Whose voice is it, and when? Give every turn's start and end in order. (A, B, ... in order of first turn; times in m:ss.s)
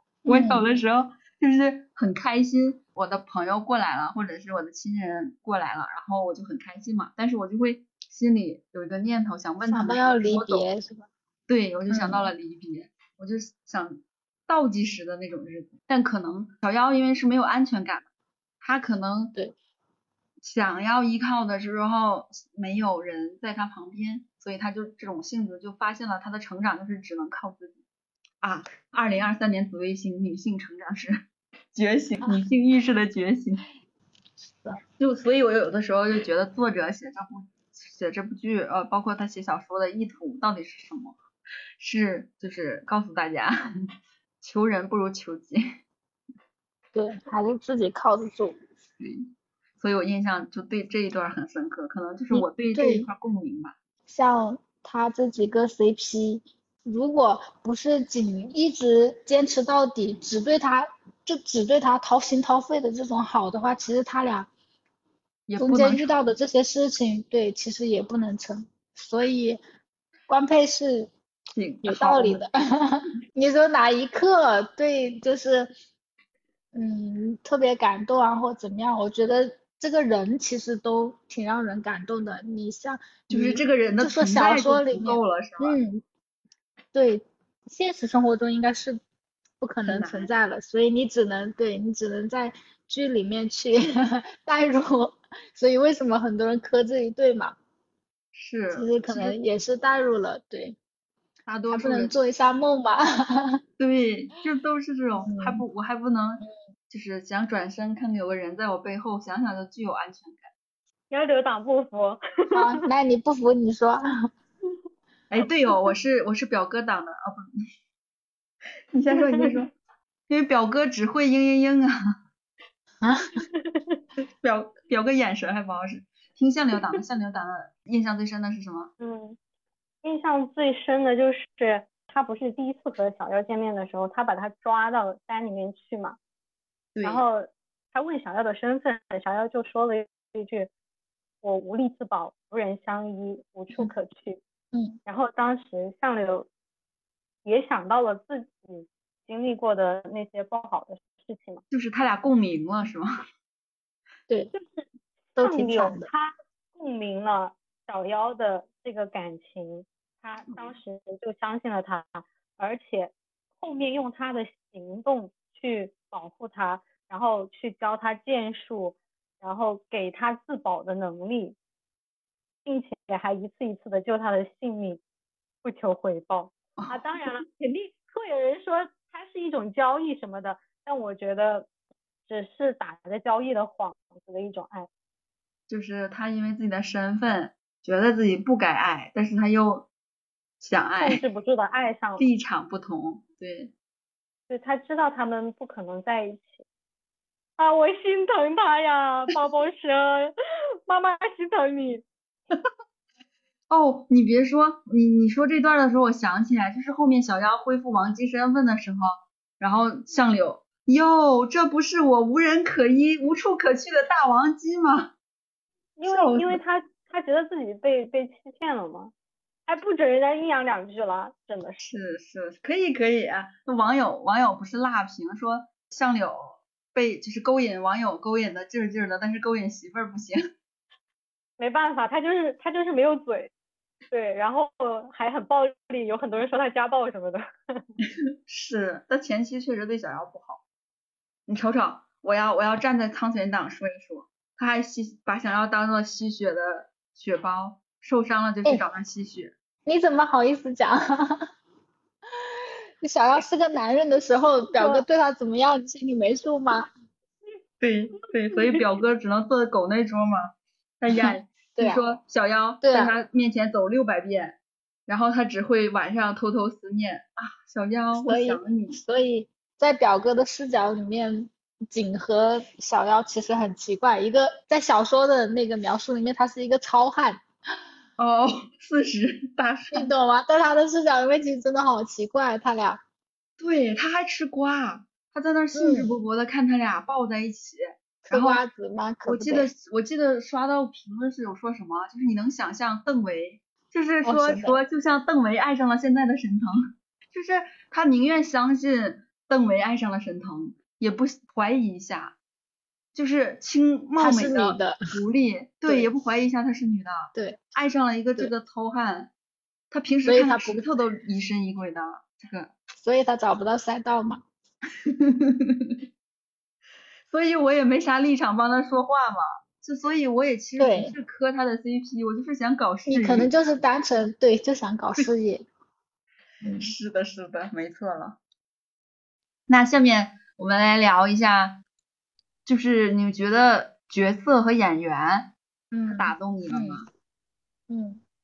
0:00.2-0:00.7 A
0:00.3-0:10.7 B
0:09.7-0:11.1 A
0:11.5-0:18.1 B
0:11.9-0:12.3 A
0:18.6-0:19.4 B
0:20.4-0:27.8 B
0:28.4-0:31.2 B
0:31.7-0:33.6 B
0:35.0-0:41.2 B
0:41.8-0:43.6 B
0:44.4-0:45.6 B
0:46.9-0:48.6 A
0:49.0-0:53.8 B
0:52.3-0:53.1 A
0:54.1-1:04.5 A
1:05.5-1:06.3 B
1:05.6-1:09.6 A
1:10.3-1:11.1 A
1:11.6-1:12.4 B
1:11.8-1:15.7 A
1:16.7-1:26.0 A
1:23.3-1:25.8 B
1:26.9-1:29.0 A
1:29.6-1:37.6 A
1:29.9-1:30.3 B
1:38.3-1:39.4 B
1:38.7-1:40.8 A
1:41.5-1:42.2 B
1:41.7-1:43.6 A
1:43.8-1:50.5 B
1:45.2-1:45.6 A
1:51.1-1:52.8 C
1:52.5-1:54.0 A
1:55.3-1:57.5 B
1:58.9-1:59.7 B
1:59.1-1:59.4 C
2:00.3-2:02.0 B
2:03.0-2:03.4 A
2:03.6-2:04.0 C
2:04.4-2:08.9 B
2:09.0-2:09.4 C
2:10.0-2:16.2 C
2:17.0-2:17.2 B
2:17.0-2:20.7 C
2:21.4-2:24.4 C
2:24.7-2:25.0 A
2:25.1-2:26.5 C
2:27.4-2:31.6 C
2:31.7-2:33.2 B
2:34.5-2:51.6 C
2:35.4-2:36.1 A
2:40.5-2:40.7 B
2:52.6-2:55.0 C
2:55.6-3:01.7 C
3:02.3-3:04.9 C
3:05.7-3:09.9 B
3:10.6-3:11.2 B
3:11.0-3:12.2 C
3:12.2-3:13.7 B
3:14.5-3:16.6 C
3:17.6-3:20.4 C
3:20.9-3:22.0 C
3:23.7-3:35.1 B
3:36.0-3:39.1 C
3:36.0-3:36.6 B
3:39.7-3:41.9 C
3:41.8-3:50.4 B
3:51.6-3:53.5 C
3:54.1-3:57.8 C
3:58.5-4:00.6 B
4:01.5-4:09.5 B
4:09.9-4:11.5 A
4:13.0-4:16.9 A
4:14.7-4:15.0 C
4:17.8-4:29.0 B
4:21.2-4:22.0 A
4:22.8-4:23.1 A
4:28.2-4:37.4 A
4:38.2-4:40.1 B
4:39.9-4:43.0 A
4:43.6-4:48.6 B
4:45.7-4:46.1 A
4:48.3-4:49.7 A
4:49.2-5:02.4 B
4:54.2-4:54.8 A
5:03.1-5:09.3 B
5:04.2-5:05.0 A
5:07.3-5:07.6 A
5:09.9-5:12.7 B
5:10.3-5:10.9 A
5:13.0-5:14.4 A
5:15.1-5:15.9 B
5:17.3-5:23.5 B
5:20.8-5:21.1 A
5:23.1-5:25.7 A
5:26.6-5:26.9 A
5:26.8-5:28.4 B
5:29.7-5:31.8 B
5:32.7-5:35.5 B
5:35.9-5:37.0 A
5:36.1-5:37.1 B
5:37.9-5:38.2 A